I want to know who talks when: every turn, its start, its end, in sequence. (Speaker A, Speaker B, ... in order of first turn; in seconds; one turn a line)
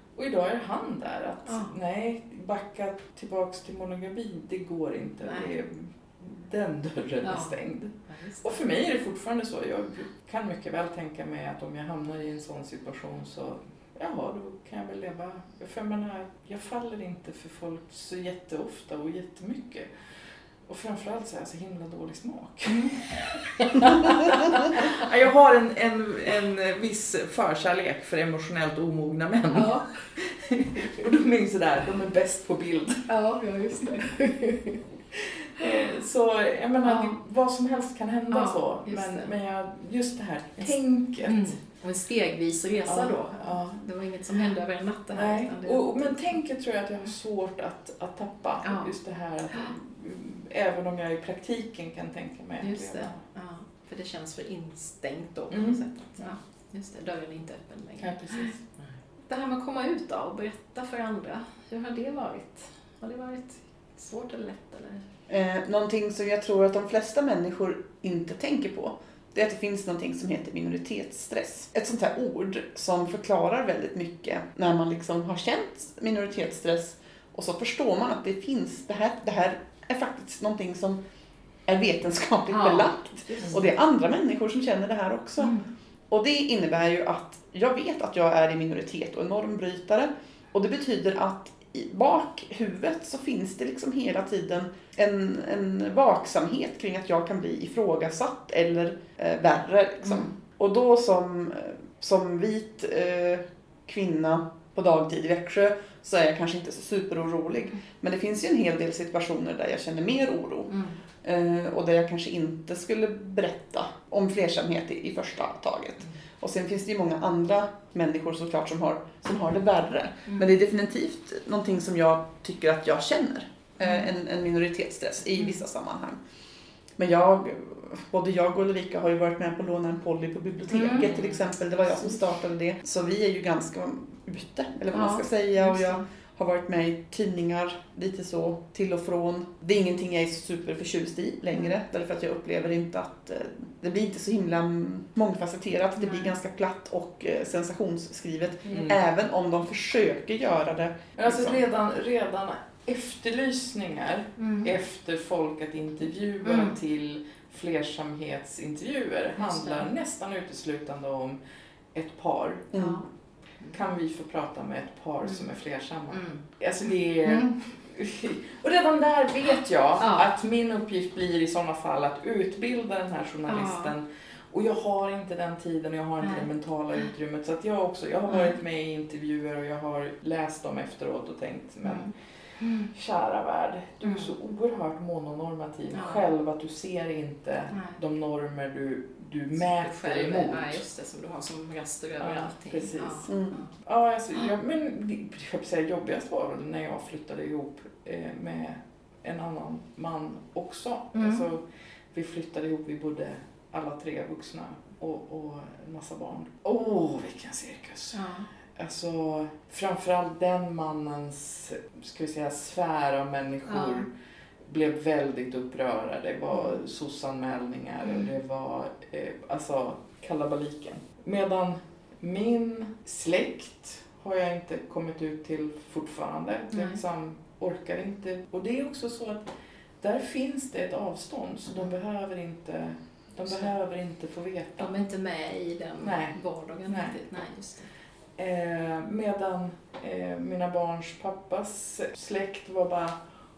Speaker A: 0.1-19.9
Speaker B: 1.4-1.7
Speaker B: 5.3-5.5
Speaker B: 7.2-7.6
Speaker B: 8.1-8.6
Speaker A: 20.7-33.1
Speaker B: 23.7-25.0
Speaker B: 29.5-29.9
Speaker B: 33.1-34.8
Speaker A: 35.1-41.6
Speaker B: 36.8-37.1
Speaker B: 38.3-39.3
Speaker B: 41.2-46.2
Speaker A: 42.9-43.8
Speaker A: 45.1-53.2
Speaker B: 48.6-48.9
Speaker B: 52.6-58.5
Speaker A: 55.5-55.8
Speaker A: 58.0-58.6
Speaker B: 59.3-65.0
Speaker C: 65.3-81.0
Speaker C: 81.7-85.5
Speaker B: 82.5-83.6
Speaker B: 85.4-85.7
Speaker C: 86.1-110.7
Speaker B: 100.0-100.3
Speaker B: 110.7-111.0
Speaker C: 111.2-126.2
Speaker B: 123.8-124.1
Speaker C: 127.0-151.6
Speaker B: 130.7-131.1
Speaker B: 134.9-136.0
Speaker B: 146.0-146.3
Speaker A: 148.7-149.0
Speaker A: 151.2-161.4
Speaker B: 154.4-154.7
Speaker B: 156.4-156.8
Speaker B: 159.4-159.9
Speaker A: 161.9-162.8
Speaker B: 162.7-163.0
Speaker A: 163.7-182.1
Speaker B: 166.1-166.4
Speaker B: 167.3-167.6
Speaker B: 170.0-170.3
Speaker B: 173.5-173.9
Speaker B: 176.2-176.5
Speaker B: 178.3-178.6
Speaker B: 181.8-182.9
Speaker A: 182.9-190.8
Speaker B: 184.0-184.3
Speaker B: 185.9-186.2
Speaker B: 187.7-188.0
Speaker B: 189.7-193.7
Speaker A: 192.2-201.6
Speaker C: 193.3-193.6
Speaker B: 201.1-201.4
Speaker A: 202.1-208.2
Speaker B: 208.1-208.5
Speaker A: 208.8-214.1
Speaker B: 213.7-214.1
Speaker A: 214.7-229.4
Speaker B: 216.5-216.8
Speaker B: 226.7-227.0
Speaker A: 230.0-234.9
Speaker B: 234.8-237.9
Speaker A: 236.0-236.4
Speaker A: 236.9-237.2
Speaker A: 238.4-243.2